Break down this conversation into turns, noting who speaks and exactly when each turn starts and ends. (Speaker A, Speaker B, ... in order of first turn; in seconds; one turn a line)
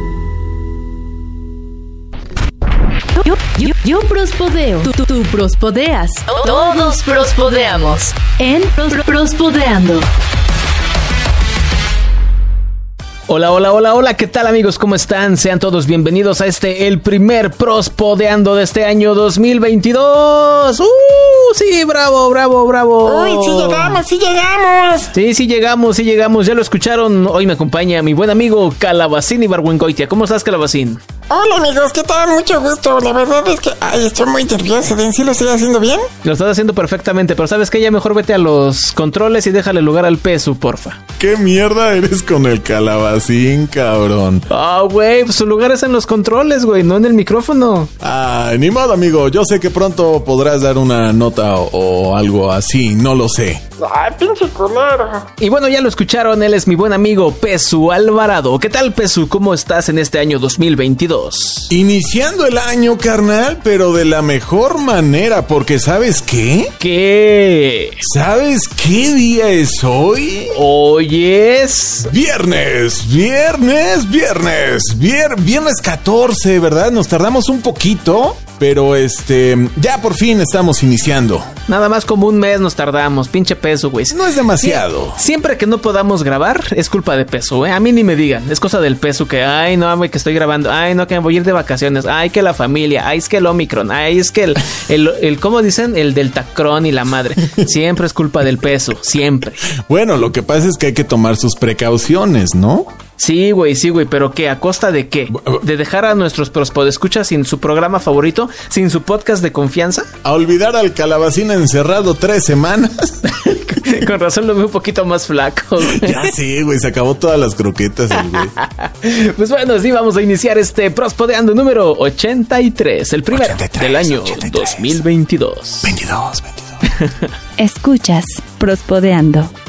Speaker A: 3.2-10.1
Speaker B: 13.3-24.0
Speaker C: 23.1-25.1
Speaker B: 25.1-31.0
Speaker C: 31.3-36.1
Speaker B: 36.2-41.0
Speaker D: 41.2-44.5
Speaker B: 44.5-47.9
Speaker D: 48.0-53.6
Speaker C: 53.8-55.3
Speaker B: 55.4-61.7
Speaker D: 61.7-66.7
Speaker B: 66.8-68.0
Speaker D: 68.0-70.6
Speaker B: 70.5-72.1
Speaker D: 72.0-81.5
Speaker B: 81.7-99.6
Speaker D: 84.1-85.2
Speaker D: 99.7-102.9
Speaker B: 103.2-110.1
Speaker D: 110.2-113.2
Speaker B: 113.2-116.3
Speaker D: 115.8-118.5
Speaker B: 118.2-125.9
Speaker D: 123.3-125.0
Speaker D: 125.8-126.8
Speaker B: 126.9-127.3
Speaker E: 127.6-129.5